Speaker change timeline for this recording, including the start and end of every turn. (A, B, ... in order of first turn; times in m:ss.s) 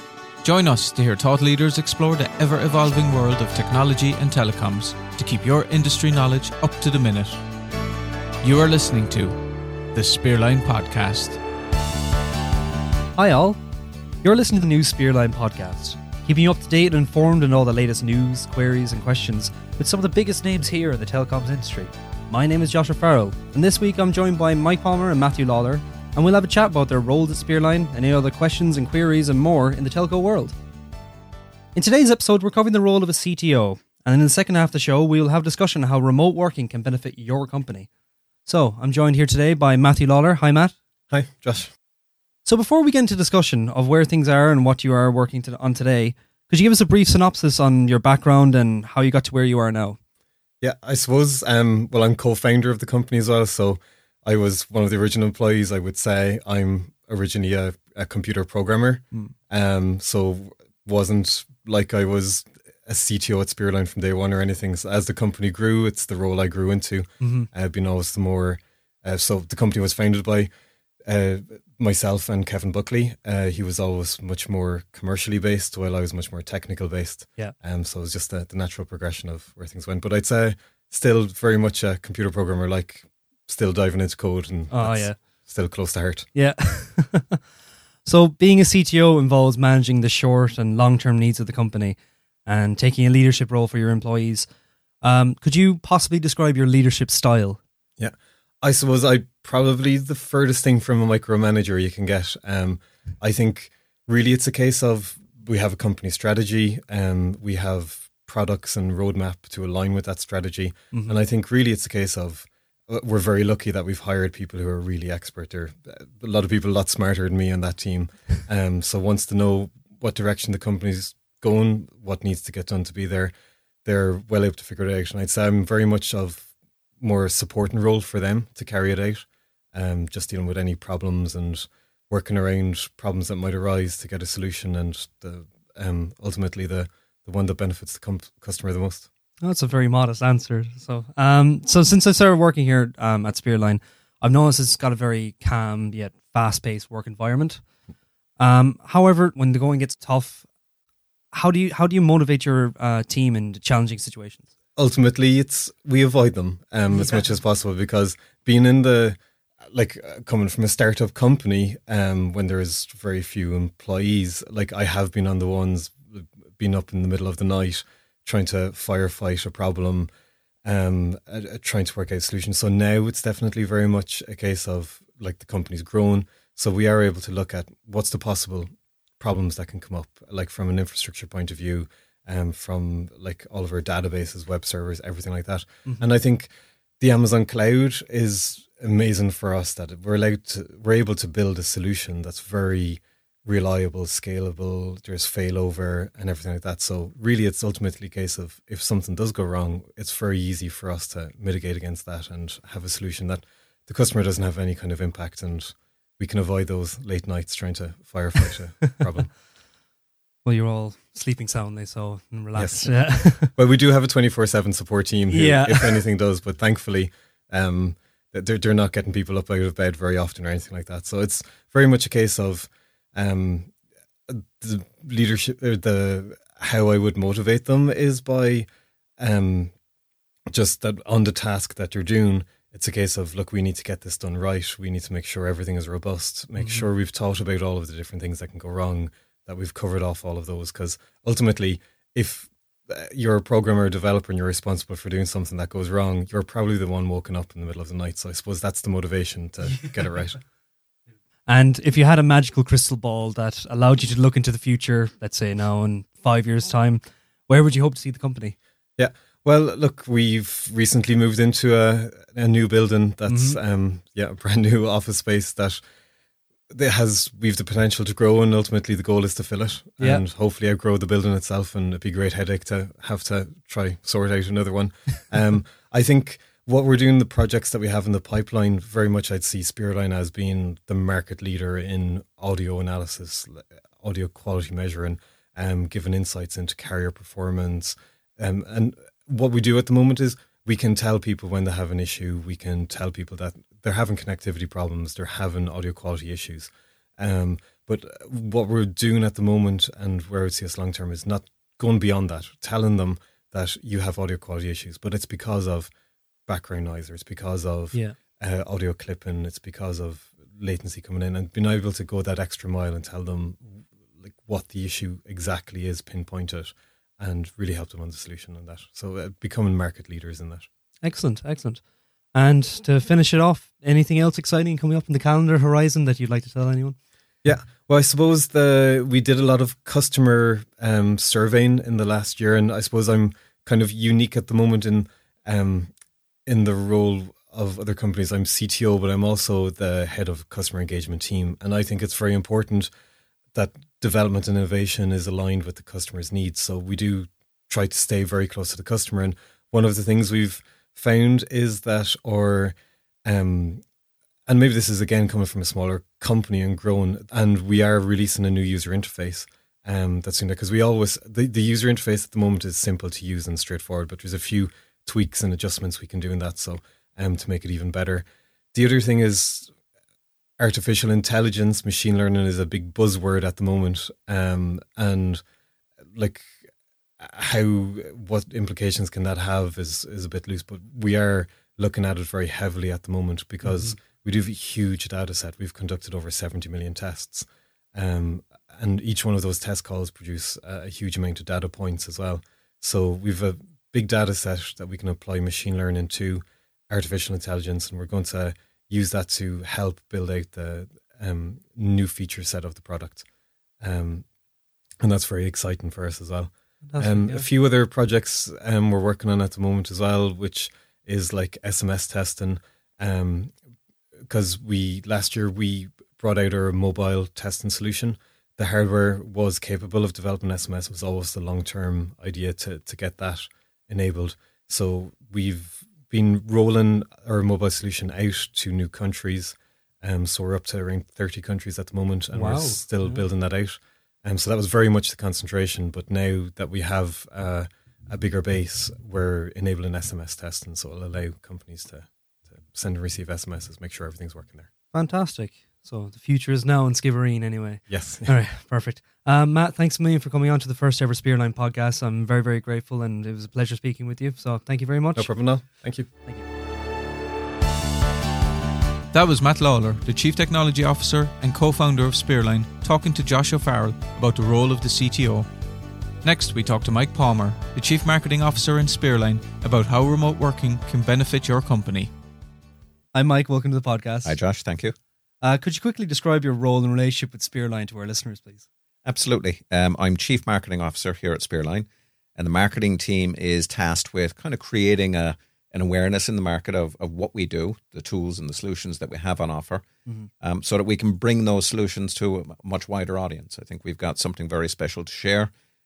0:00.4-0:07.4 A
0:08.4-0:09.4 A
0:09.9-0:11.4 A
0:13.2-0:13.6 B
0:14.2-0:30.5 B
0:31.7-0:37.9 B
0:38.4-0:40.7 B
0:41.1-0:41.7 C
0:42.4-0:50.0 B
0:50.6-1:10.5 C
1:07.2-1:07.5 B
1:11.0-1:26.3 C
1:24.7-1:25.2 B
1:26.3-1:27.4 B
1:28.0-1:34.5 B
1:35.0-1:37.6 B
1:38.0-2:03.3 C
1:50.9-1:51.2 B
2:03.8-2:19.1 C
2:19.4-2:27.6 B
2:28.4-2:30.5 B
2:31.3-2:34.5 B
2:34.8-2:39.2 C
2:36.9-2:37.3 B
2:39.7-2:50.1 C
2:50.6-3:29.3 C
3:30.4-3:33.5 B
3:32.6-3:43.7 C
3:35.3-3:36.0 B
3:44.3-3:48.7 C
3:49.2-3:49.7 C
3:50.5-4:10.4 C
3:56.6-3:56.8 B
4:11.4-4:18.6 B
4:19.0-4:25.8 C
4:23.3-4:23.6 B
4:26.7-5:05.9 C
4:30.0-4:30.2 B
5:06.5-5:20.7 C
5:21.0-5:21.8 B
5:22.3-5:27.0 B
5:27.4-5:35.9 C
5:36.5-5:42.9 C
5:43.5-5:53.8 C
5:54.5-6:09.7 C
6:10.6-6:15.4 C
6:16.1-6:16.6 C
6:17.2-6:43.2 C
6:23.6-6:23.9 B
6:43.8-6:44.2 C
6:45.0-6:53.5 C
6:46.8-6:47.5 B
6:54.3-7:24.7 C
7:12.3-7:13.2 B
7:24.9-7:35.3 B
7:27.9-7:28.3 C
7:35.2-7:36.1 C
7:39.1-7:45.5 A
7:46.2-7:52.1 A
7:53.1-7:54.4 B
7:54.2-7:54.9 D
7:55.4-7:58.6 B
7:59.0-8:09.8 D
8:10.4-8:15.5 D